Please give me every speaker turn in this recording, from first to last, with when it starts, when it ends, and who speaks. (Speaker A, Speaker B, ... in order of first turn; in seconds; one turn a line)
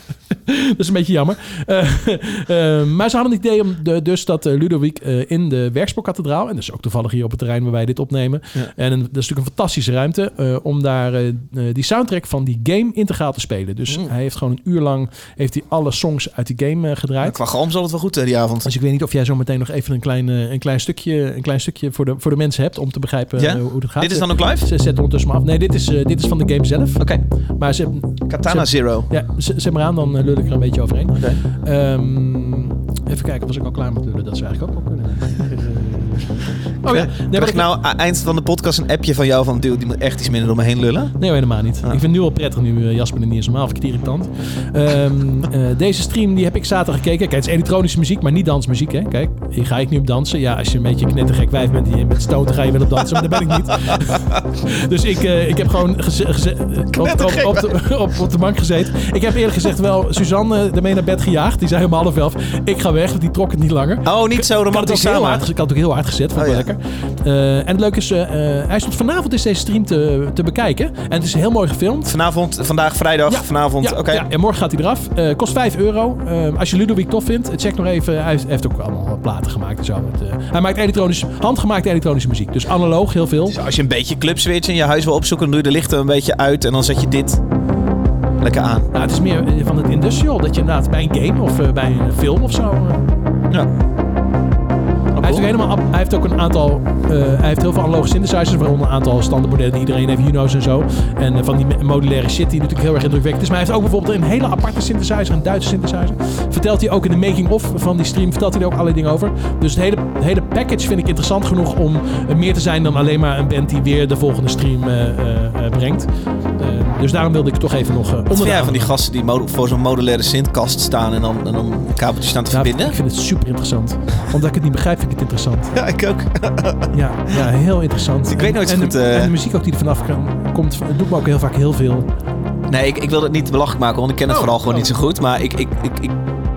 Speaker A: 0.3-17.4
Speaker B: 17.2-18.7
Speaker A: 18.6-37.7
Speaker B: 23.4-24.7
Speaker B: 28.3-29.1
Speaker B: 31.1-31.4
Speaker B: 36.8-41.2
Speaker A: 41.2-72.1
Speaker B: 56.9-57.8
Speaker B: 64.0-65.5
Speaker B: 66.3-66.7
Speaker B: 72.0-74.3
Speaker A: 73.3-83.6
Speaker B: 83.5-87.4
Speaker B: 88.4-88.9
Speaker A: 88.9-93.0
Speaker B: 95.1-95.5
Speaker A: 95.2-118.9
Speaker B: 118.3-123.0
Speaker A: 122.5-125.7
Speaker B: 125.7-127.5
Speaker A: 126.9-132.1
Speaker B: 128.3-129.3
Speaker B: 132.7-136.2
Speaker A: 134.3-134.9